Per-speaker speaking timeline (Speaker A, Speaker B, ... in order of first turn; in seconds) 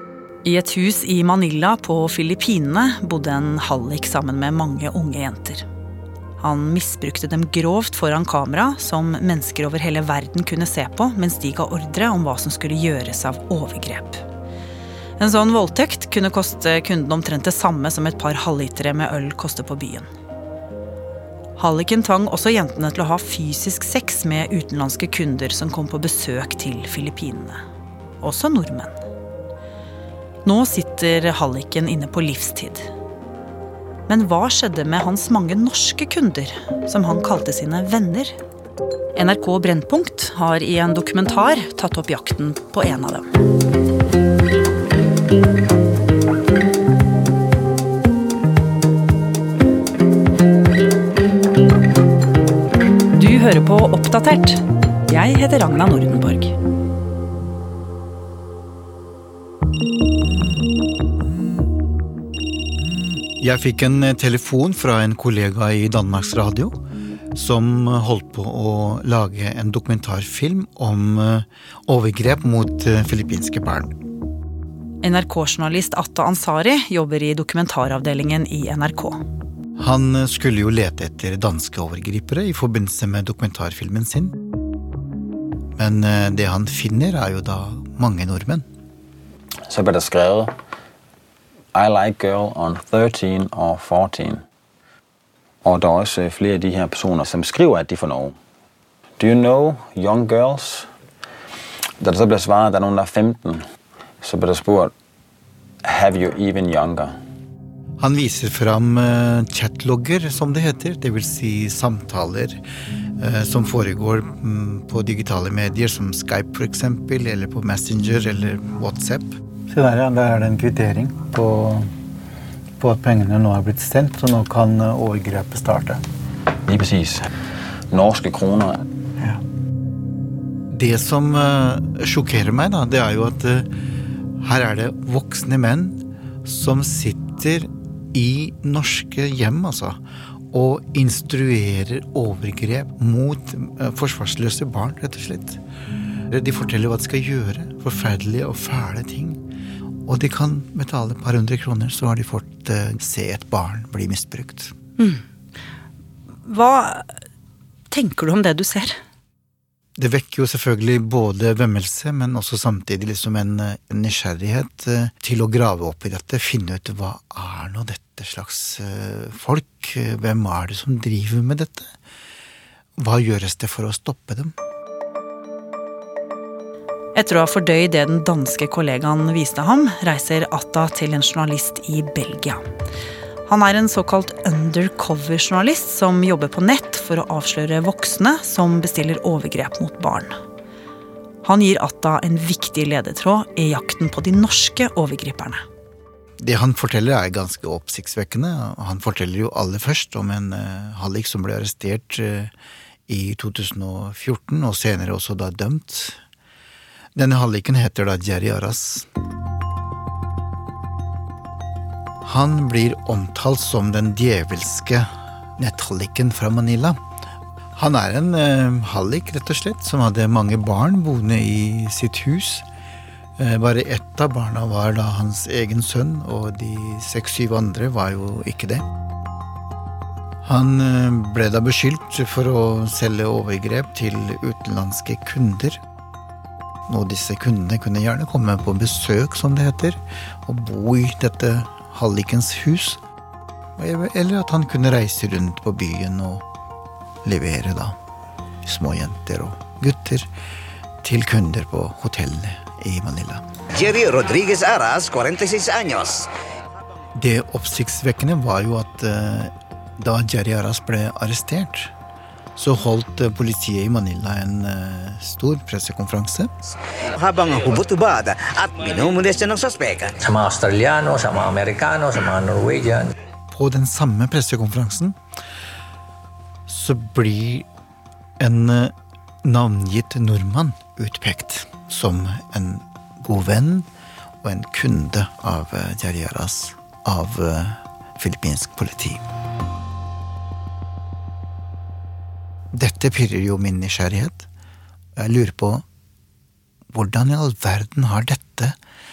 Speaker A: 0.5-5.6, 6.4-14.2, 15.2-20.1, 21.6-27.6, 28.2-28.9, 30.4-32.9, 34.1-38.3, 39.1-43.3, 53.1-56.5, 75.0-79.2, 156.4-157.1, 157.9-159.0, 177.2-182.6, 183.5-190.3, 191.4-195.6
Speaker B: 63.3-66.7, 67.3-74.0, 79.8-84.4, 85.8-88.7, 108.0-112.6, 113.2-121.9, 122.8-126.0, 130.7-133.7, 134.4-140.0, 140.5-145.6, 146.3-149.4, 150.1-154.7, 160.0-171.9, 173.0-174.5, 196.4-202.5, 203.1-206.2, 207.2-209.1, 212.2-217.0, 217.8-222.7, 223.4-228.8, 230.4-235.8, 236.9-243.0, 243.8-246.5, 247.2-248.0, 248.7-250.3, 251.0-253.4, 257.1-261.9, 262.6-266.5, 273.5-275.2, 276.7-277.7, 278.4-278.9, 279.4-283.9, 284.4-289.2, 292.7-294.5, 295.2-295.8, 296.9-298.8
Speaker C: 89.7-90.5, 91.7-94.4, 95.6-98.4, 99.2-100.9, 102.0-103.6, 104.2-104.9, 105.8-107.2, 126.7-127.3, 127.9-128.8
Speaker D: 253.8-256.3, 267.2-270.2
Speaker E: 270.2-273.1